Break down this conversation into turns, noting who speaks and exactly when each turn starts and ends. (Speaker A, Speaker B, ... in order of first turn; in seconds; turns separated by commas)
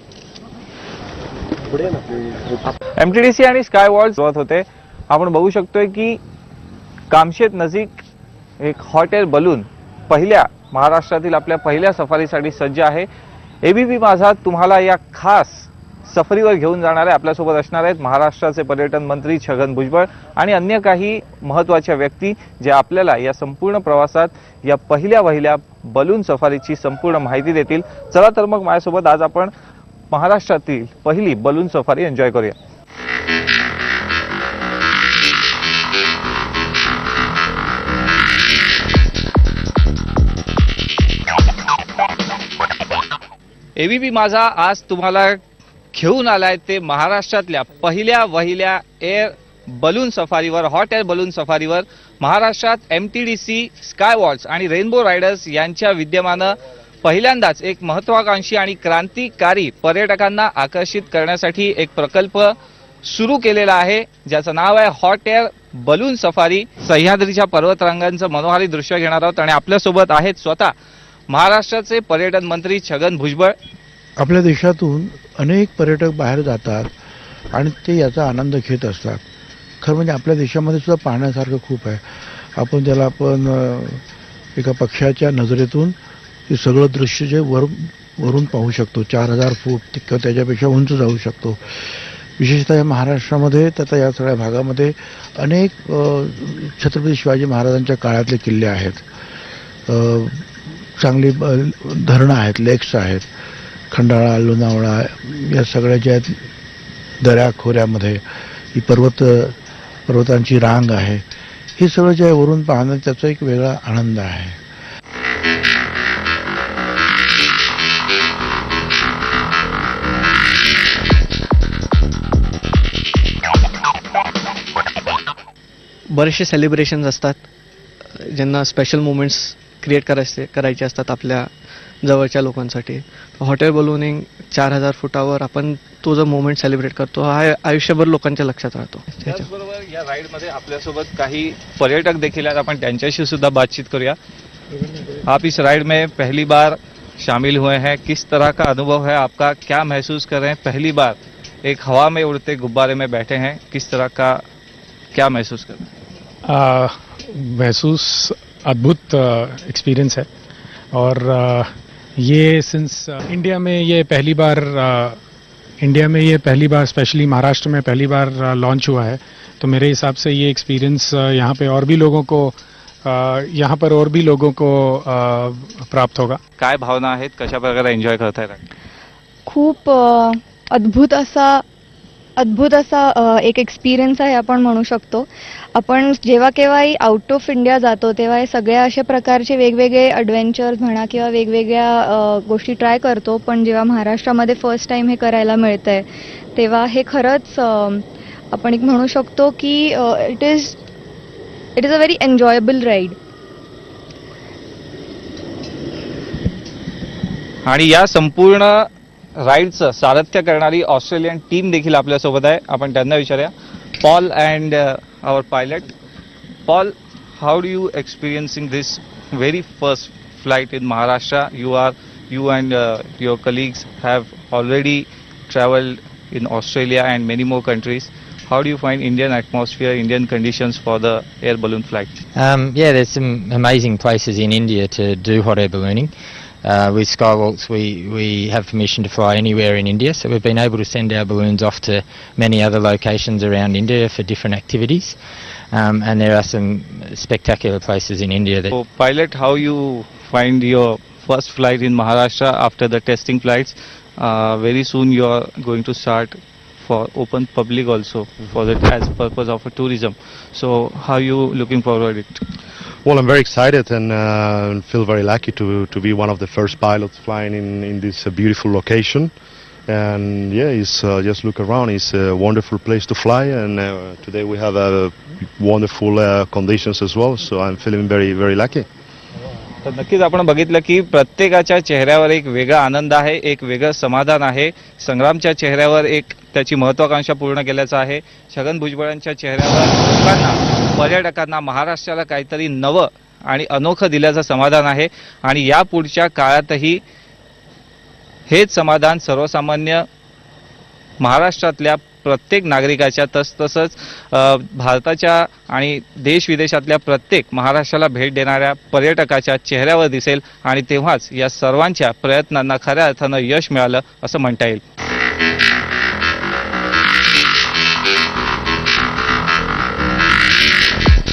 Speaker A: 3.0-6.2, Speaker A: 7.1-7.9, Speaker A: 8.6-13.1, Speaker A: 13.6-29.5, Speaker A: 30.1-32.6, Speaker A: 43.8-45.4, Speaker A: 45.9-70.7, Speaker A: 71.3-73.5, Speaker B: 74.2-76.9, Speaker B: 77.5-79.2, Speaker B: 79.8-84.0, Speaker B: 84.5-86.0, Speaker B: 86.5-99.0, Speaker B: 99.9-103.2, Speaker B: 103.9-106.4, Speaker B: 107.2-109.5, Speaker B: 110.1-114.6, Speaker C: 126.1-127.5, Speaker C: 128.1-131.5, Speaker C: 132.0-139.4, Speaker A: 139.2-144.2, Speaker A: 145.2-154.4, Speaker A: 155.1-155.9, Speaker D: 156.4-160.3, Speaker D: 160.9-165.2, Speaker D: 165.8-176.4, Speaker A: 176.6-178.6, Speaker E: 179.4-181.6, Speaker E: 182.4-200.8, Speaker E: 201.8-203.2, Speaker A: 207.6-208.9, Speaker A: 209.4-215.9, Speaker A: 216.7-232.1, Speaker F: 232.3-236.1, Speaker F: 236.6-245.2, Speaker F: 245.7-248.7, Speaker A: 248.7-262.4, Speaker G: 263.0-269.3, Speaker G: 269.9-278.9, Speaker A: 279.8-297.0, Speaker A: 298.5-300.0, Speaker A: 301.2-314.8